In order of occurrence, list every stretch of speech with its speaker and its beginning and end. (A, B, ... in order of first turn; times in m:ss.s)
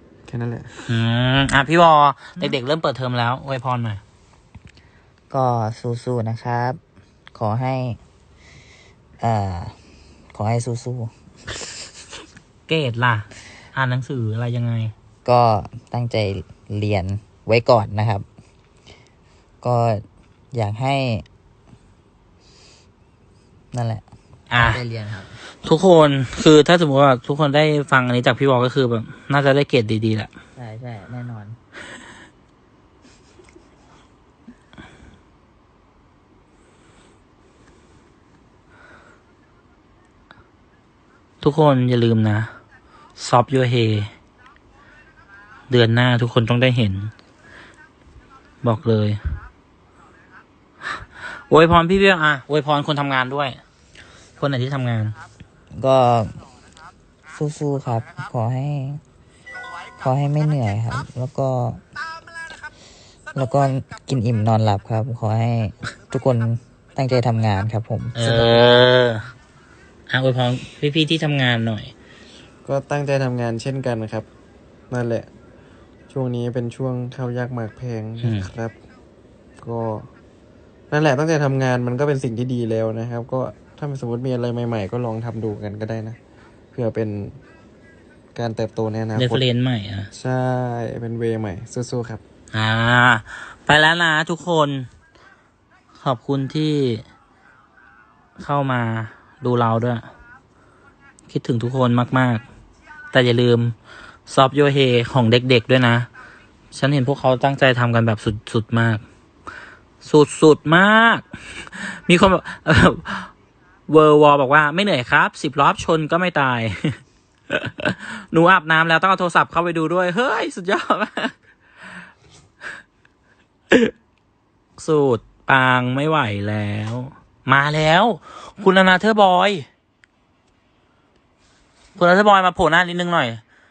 0:00.3-0:00.8 A
0:00.9-0:04.0 B
0:05.3-0:06.8 C
0:07.3-0:08.0 C
0:09.2-0:09.7 C
0:10.3-0:11.1 C
0:12.7-0:14.9 B
0:15.2-0:18.2 C
0:19.6-0:21.2 C
0:23.7-0:25.4 C
0:24.5-0:24.8 B
0:25.6-0:30.3 B
0:30.6-0:31.6 C
0:41.4-0:42.5 B
0:43.2-0:44.1 B
0:45.7-0:47.1 B
0:48.6-0:49.2 B
0:50.8-0:53.6 B
0:54.4-0:55.2 B
0:55.7-0:56.4 C
0:57.3-0:59.0 C
1:00.0-1:01.8 C
1:03.3-1:08.8 C
1:08.1-1:09.2 B
1:10.1-1:11.9 B
1:12.6-1:14.3 A
1:14.9-1:15.3 A
1:16.1-1:18.8 A
1:18.2-1:18.5 B
1:19.6-1:20.1 A
1:20.9-1:26.2 A
1:26.7-1:27.4 A
1:28.3-1:29.4 A
1:29.2-1:30.1 B
1:30.1-1:32.2 A
1:32.5-1:34.9 B
1:36.0-1:37.0 B
1:38.4-1:40.0 B
1:41.3-1:42.4 B
1:43.1-1:43.7 B
1:44.3-1:46.1 B
1:46.7-1:49.0 B
1:50.0-1:53.3 B
1:53.9-2:01.3 B
2:04.8-2:09.6 B
2:12.0-2:13.4 B